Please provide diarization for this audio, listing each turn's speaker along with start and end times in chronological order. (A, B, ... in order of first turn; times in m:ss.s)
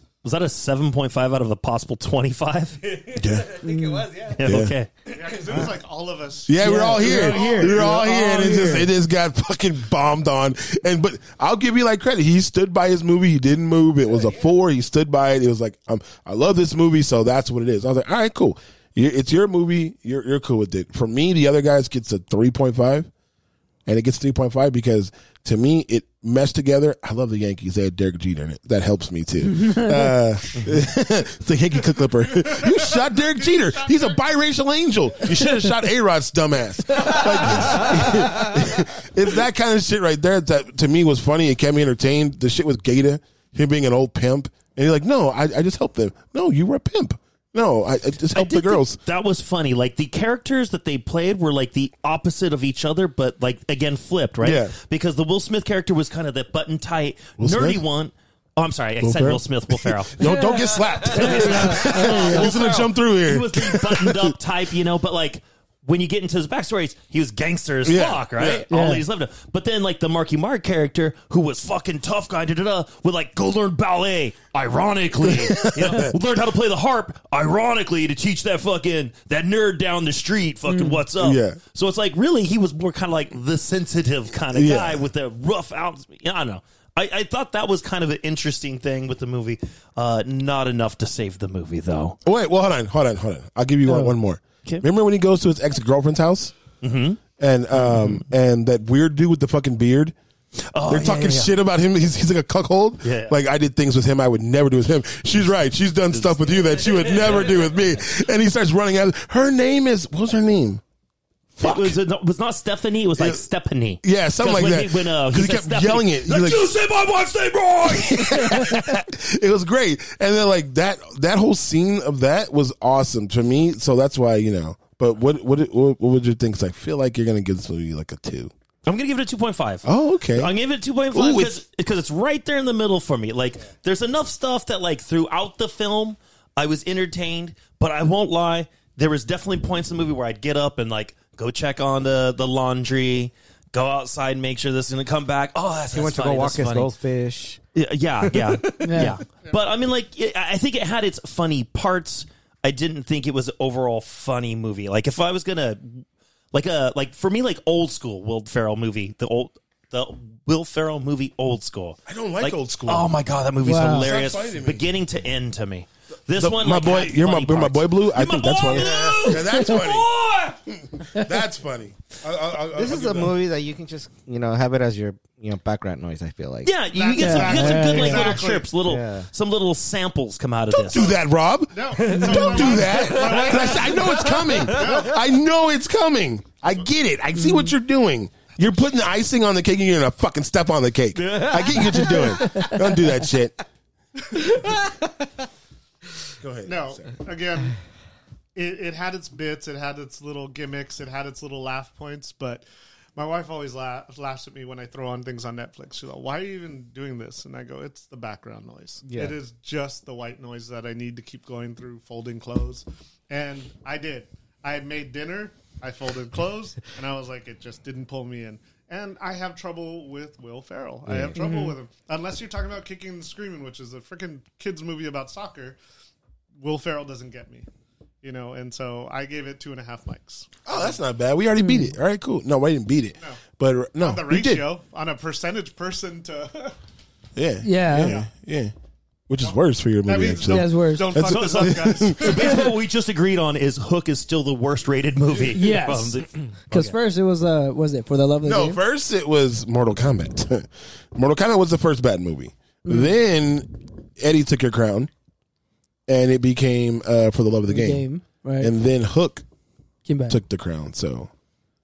0:00.2-0:02.8 A
0:02.8-0:04.4 B
0:03.1-0:03.5 C
0:03.6-0:04.1 D
0:04.3-0:04.9 A
0:04.4-0:04.7 C
0:05.1-0:05.7 B
0:05.1-0:07.9 E
0:06.5-0:23.1 C
0:06.6-0:08.9 D
0:14.1-0:14.5 B
0:23.9-0:49.0 C
0:29.5-0:29.9 D
0:32.4-0:34.2 E
0:48.3-1:00.2 A
0:54.4-0:54.8 C
0:57.4-0:57.8 C
0:59.0-1:04.3 C
1:00.2-1:02.5 D
1:01.1-1:32.2 A
1:07.8-1:08.7 C
1:08.7-1:09.0 D
1:15.2-1:16.2 C
1:20.7-1:21.0 D
1:21.2-1:21.6 C
1:24.5-1:25.1 C
1:32.2-1:36.5 C
1:36.8-1:37.2 A
1:37.4-1:40.2 C
1:37.7-1:38.2 A
1:40.7-1:41.6 A
1:40.9-1:50.8 C
1:43.0-1:43.4 A
1:46.1-1:48.0 A
1:51.6-1:52.0 C
1:51.6-1:58.8 A
1:53.2-1:53.4 C
1:54.0-1:56.7 C
1:57.8-2:08.5 C
2:08.9-2:26.9 A
2:09.8-2:10.6 C
2:11.1-2:11.6 C
2:25.9-2:27.6 B
2:27.8-2:50.6 A
2:28.2-2:29.0 B
2:28.8-2:29.2 D
2:42.1-2:43.1 C
2:43.6-2:44.1 D
2:43.8-2:45.0 C
2:46.4-2:50.1 C
2:50.6-2:53.4 C
2:52.7-2:56.8 B
2:56.6-3:01.1 A
2:56.9-2:58.7 E
2:57.2-2:58.4 D
2:58.8-2:59.3 B
3:00.7-3:13.6 C
3:00.9-3:01.2 E
3:01.7-3:05.2 E
3:02.1-3:02.6 D
3:02.7-3:05.0 B
3:07.4-3:07.7 D
3:11.3-3:12.7 B
3:12.1-3:12.7 D
3:14.5-3:15.0 B
3:16.4-3:17.1 C
3:16.7-3:17.8 E
3:18.6-3:22.6 E
3:23.2-3:45.8 E
3:29.0-3:29.4 B
3:41.4-3:41.8 D
3:46.6-3:47.7 E
3:48.2-3:51.0 E
3:50.6-3:54.7 C
3:51.6-3:51.9 D
3:54.0-3:56.8 E
3:57.4-3:58.7 C
3:57.6-3:58.2 D
3:57.9-3:58.3 E
3:59.3-4:02.6 C
3:59.4-4:02.7 E
4:00.5-4:01.2 D
4:01.3-4:06.3 A
4:05.5-4:08.8 D
4:08.4-4:15.1 C
4:12.8-4:13.2 D
4:16.1-4:18.1 C
4:17.7-4:18.7 D
4:18.6-4:19.4 C
4:20.1-4:20.4 D
4:20.3-4:21.3 C